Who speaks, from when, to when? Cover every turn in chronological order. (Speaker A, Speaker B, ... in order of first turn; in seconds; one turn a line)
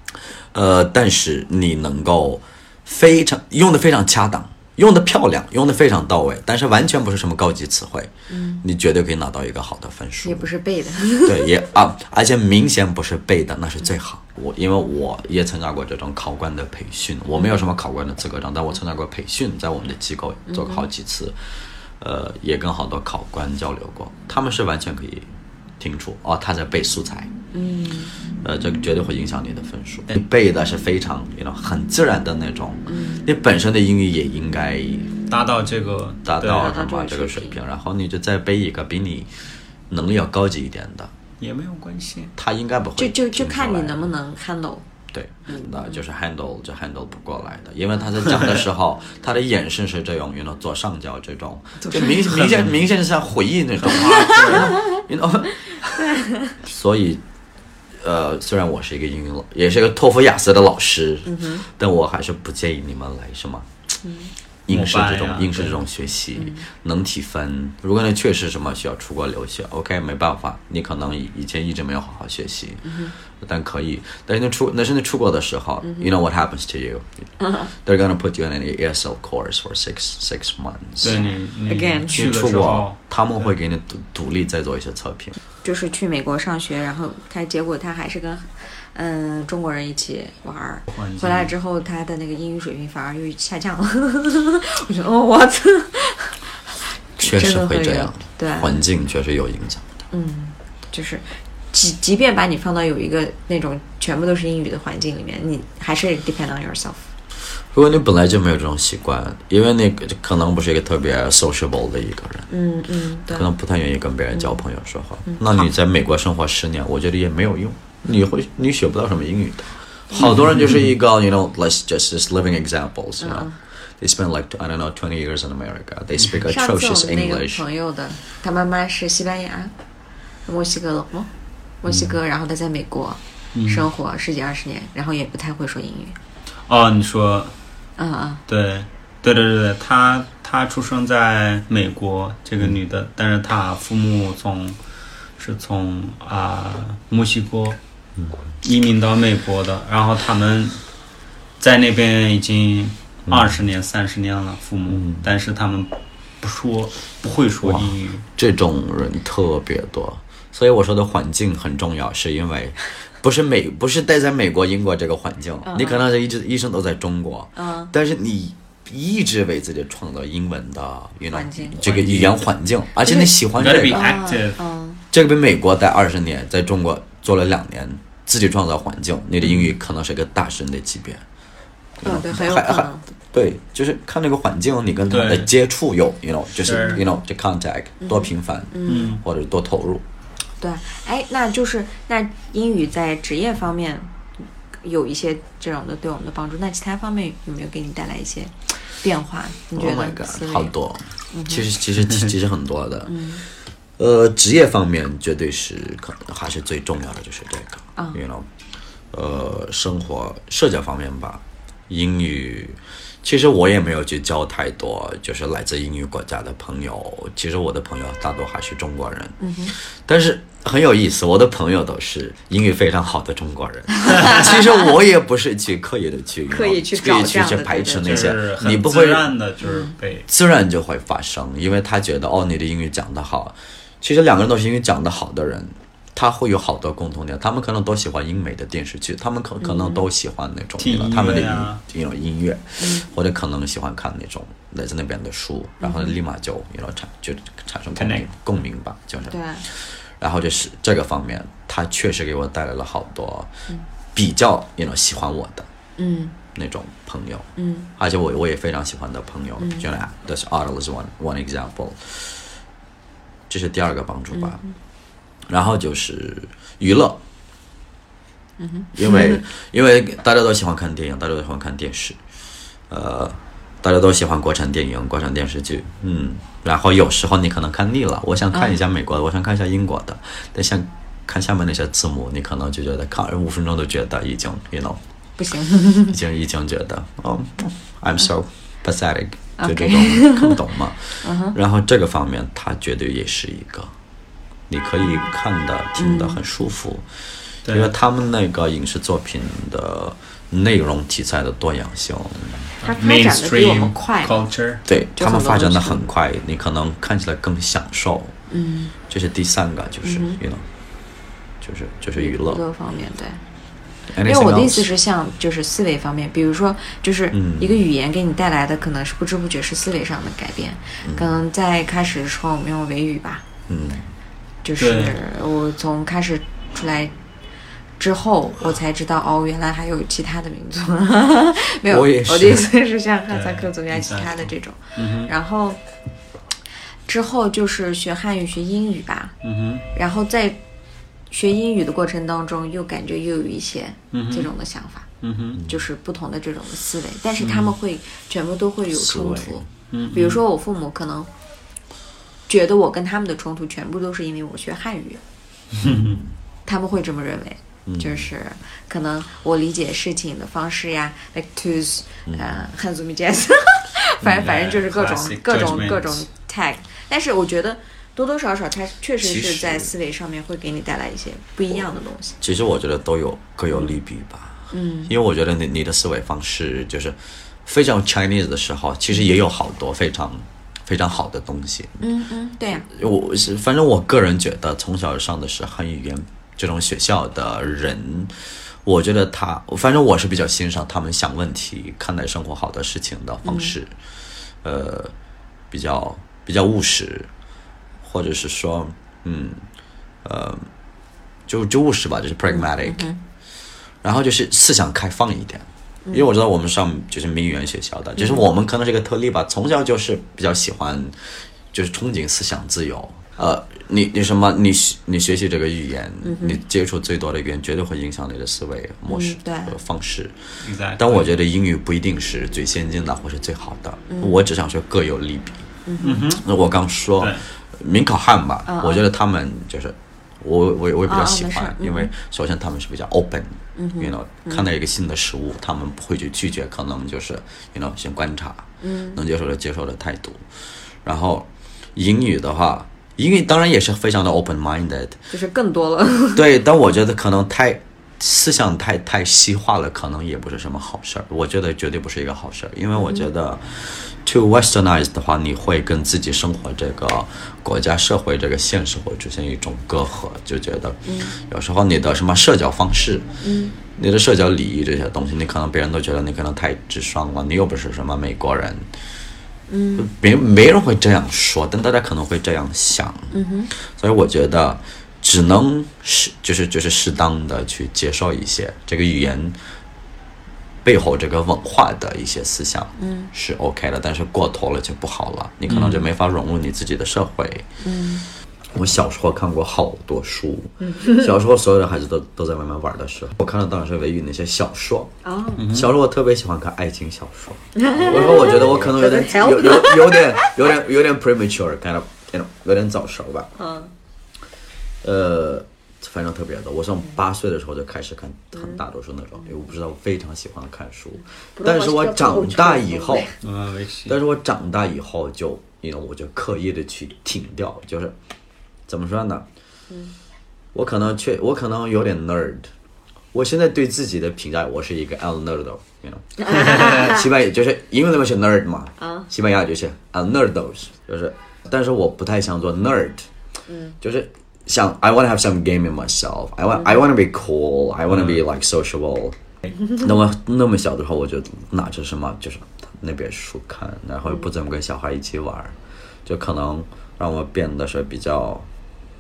Speaker A: 0.5-8.1
Speaker B: 8.3-8.6
Speaker A: 8.6-10.5
Speaker B: 10.2-11.5
Speaker A: 11.2-21.4
Speaker B: 20.5-20.9
Speaker A: 22.0-25.3
Speaker A: 25.8-27.3
Speaker B: 27.5-28.1
Speaker A: 28.4-35.1
Speaker B: 32.9-33.2
Speaker C: 35.3-36.8
Speaker A: 36.2-39.3
Speaker B: 36.5-37.6
Speaker A: 39.9-41.1
Speaker C: 41.4-42.3
Speaker A: 42.4-44.1
Speaker B: 43.0-44.9
Speaker A: 45.1-57.2
Speaker B: 45.5-46.0
Speaker B: 51.8-52.2
Speaker C: 52.3-52.7
Speaker C: 53.8-54.8
Speaker B: 54.0-55.0
Speaker B: 56.0-56.6
Speaker A: 58.0-63.7
Speaker B: 61.3-61.6
Speaker B: 64.0-64.3
Speaker A: 64.7-81.2
Speaker C: 64.7-65.8
Speaker B: 66.4-66.6
Speaker B: 72.8-73.1
Speaker B: 75.8-76.1
Speaker B: 77.4-77.7
Speaker C: 81.0-83.0
Speaker B: 81.0-82.3
Speaker A: 82.1-85.4
Speaker B: 85.6-98.8
Speaker C: 90.9-91.5
Speaker A: 97.2-99.9
Speaker B: 100.1-107.1
Speaker A: 107.7-112.5
Speaker B: 112.5-113.5
Speaker A: 113.3-127.6
Speaker B: 114.3-114.6
Speaker B: 115.3-115.7
Speaker C: 120.3-120.8
Speaker B: 123.2-123.6
Speaker B: 126.5-129.7
Speaker B: 130.5-131.3
Speaker B: 131.8-136.2
Speaker C: 133.6-133.9
Speaker C: 136.7-137.6
Speaker B: 138.0-138.4
Speaker C: 138.5-144.8
Speaker C: 145.4-147.8
Speaker C: 148.6-150.8
Speaker C: 151.6-158.2
Speaker A: 153.3-153.6
Speaker A: 154.9-155.3
Speaker A: 157.6-174.1
Speaker B: 165.7-166.0
Speaker B: 167.6-167.9
Speaker B: 171.3-171.8
Speaker C: 171.8-172.4
Speaker B: 173.0-173.3
Speaker C: 173.6-174.6
Speaker B: 173.9-175.0
Speaker A: 175.1-181.2
Speaker C: 179.4-179.7
Speaker A: 182.0-190.0
Speaker B: 182.0-183.0
Speaker C: 185.1-185.5
Speaker C: 186.6-187.0
Speaker B: 186.7-187.0
Speaker B: 188.0-189.2
Speaker C: 188.9-189.2
Speaker B: 190.6-200.7
Speaker A: 199.8-203.2
Speaker B: 201.3-201.7
Speaker B: 203.1-203.4
Speaker A: 204.0-208.5
Speaker A: 209.1-229.4
Speaker B: 219.4-219.7
Speaker B: 224.3-224.6
Speaker B: 226.5-228.3
Speaker C: 228.0-230.3
Speaker B: 229.6-229.9
Speaker A: 230.3-253.5
Speaker B: 239.6-240.1
Speaker C: 240.8-241.8
Speaker B: 242.8-243.1
Speaker B: 245.8-246.2
Speaker C: 248.0-248.3
Speaker B: 249.3-249.7
Speaker A: 254.2-255.7
Speaker B: 256.0-256.4
Speaker A: 256.6-262.4
Speaker B: 257.6-257.9
Speaker B: 259.6-259.9
Speaker A: 263.5-264.6
Speaker B: 264.3-264.7
Speaker A: 265.5-267.2
Speaker B: 268.6-269.4
Speaker A: 268.9-272.2
Speaker A: 272.9-285.0
Speaker B: 285.4-286.2
Speaker A: 286.1-293.9
Speaker B: 289.6-290.6
Speaker B: 291.2-291.6
Speaker A: 294.7-297.1
Speaker B: 295.0-295.3
Speaker B: 296.0-296.4
Speaker C: 297.6-297.9
Speaker A: 297.7-302.7
Speaker B: 302.8-304.4
Speaker C: 302.8-304.8
Speaker A: 304.9-308.4
Speaker B: 305.2-306.1
Speaker B: 308.5-308.9
Speaker A: 309.1-310.6
Speaker B: 310.1-310.4
Speaker A: 311.6-312.6
Speaker B: 312.2-313.4
Speaker A: 314.1-314.9
Speaker B: 314.2-323.4
Speaker A: 317.3-317.8
Speaker A: 321.0-321.4
Speaker A: 323.7-324.1
Speaker B: 324.6-327.1
Speaker C: 324.8-325.2
Speaker B: 328.0-335.8
Speaker A: 331.9-332.7
Speaker C: 333.3-335.3
Speaker B: 337.1-339.4
Speaker C: 339.4-339.9
Speaker B: 339.9-340.6
Speaker B: 341.3-345.1
Speaker C: 344.1-344.5
Speaker C: 345.2-345.6
Speaker A: 345.6-345.9
Speaker B: 345.7-351.3
Speaker C: 347.4-347.8
Speaker A: 348.9-349.7
Speaker C: 349.9-350.4
Speaker B: 352.5-355.2
Speaker C: 355.8-356.2
Speaker A: 355.9-356.3
Speaker B: 356.7-372.4
Speaker A: 357.9-358.3
Speaker A: 362.3-362.7
Speaker A: 364.2-364.5
Speaker C: 364.3-366.3
Speaker A: 369.2-369.9
Speaker A: 372.4-382.0
Speaker B: 374.7-375.1
Speaker B: 382.0-382.9
Speaker A: 382.9-393.9
Speaker B: 393.4-393.7
Speaker A: 394.6-395.1
Speaker A: 395.7-397.3
Speaker A: 398.0-399.6
Speaker A: 400.2-400.7
Speaker A: 401.5-403.1
Speaker B: 402.5-403.2
Speaker A: 404.0-411.2
Speaker B: 408.2-408.4
Speaker A: 411.7-425.7
Speaker B: 416.2-416.6
Speaker B: 419.1-419.8
Speaker C: 420.6-421.3
Speaker B: 424.1-424.4
Speaker B: 425.9-426.3
Speaker C: 426.0-426.4
Speaker A: 426.3-440.4
Speaker C: 427.2-427.4
Speaker B: 428.7-429.1
Speaker B: 431.1-432.1
Speaker B: 433.8-434.7
Speaker B: 438.8-439.2
Speaker A: 441.0-445.2
Speaker B: 445.3-446.5
Speaker A: 446.4-463.3
Speaker B: 452.9-453.3
Speaker B: 461.1-461.3
Speaker B: 463.4-463.8
Speaker A: 463.9-468.9
Speaker B: 469.7-470.1
Speaker A: 470.0-479.6
Speaker B: 473.3-473.7
Speaker A: 480.8-487.7
Speaker B: 483.0-483.3
Speaker C: 485.7-486.1
Speaker B: 487.8-488.3
Speaker A: 488.7-495.1
Speaker B: 490.8-491.3
Speaker B: 495.2-495.7
Speaker C: 495.6-495.9
Speaker A: 495.7-503.5
Speaker B: 497.8-500.7
Speaker B: 503.6-503.9
Speaker A: 505.0-513.3
Speaker B: 508.5-508.8
Speaker B: 511.6-513.3
Speaker C: 513.4-514.2
Speaker A: 514.1-518.1
Speaker A: 518.9-519.5
Speaker A: 520.7-522.7
Speaker A: 523.3-533.3
Speaker B: 526.5-527.3
Speaker B: 529.0-529.3
Speaker B: 533.7-534.0
Speaker A: 534.0-539.4
Speaker A: 539.9-548.7